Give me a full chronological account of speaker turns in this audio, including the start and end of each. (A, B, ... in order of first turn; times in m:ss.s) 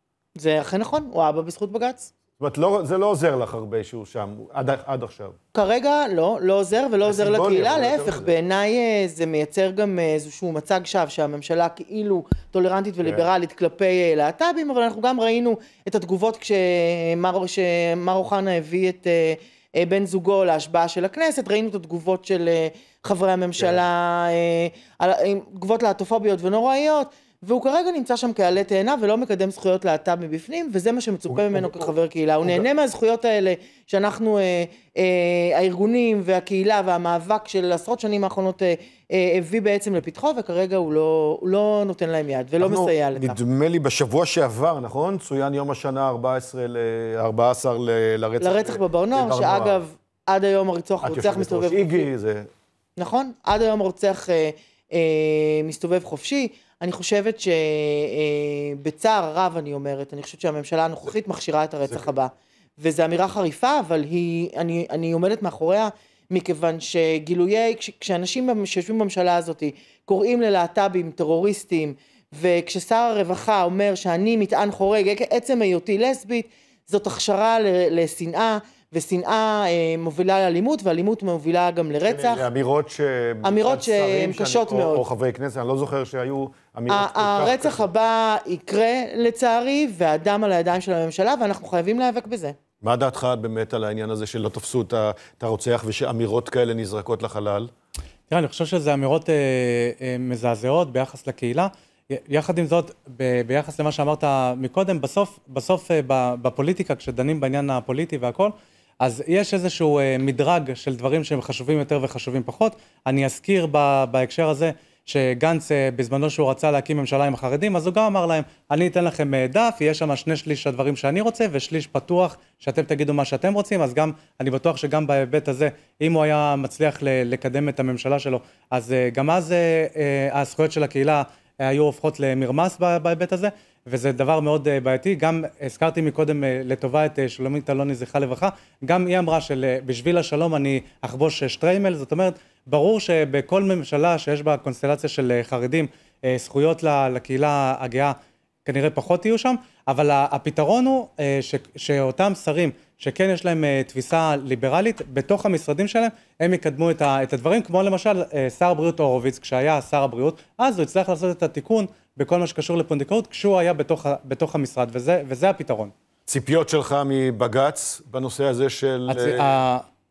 0:00.4-0:02.1 A
0:02.4-0:05.4 B
0:05.5-0:43.4 A
0:07.0-0:08.3 B
0:31.3-0:31.9 B
0:42.6-0:49.8 B
0:48.4-0:52.1 A
0:51.0-0:52.5 B
0:53.0-1:22.4 A
1:22.1-1:27.9 B
1:23.4-1:25.1 A
1:26.9-1:32.6 A
1:32.8-1:37.7 B
1:38.3-2:45.9 C
2:46.3-2:49.5 B
2:49.1-2:49.8 C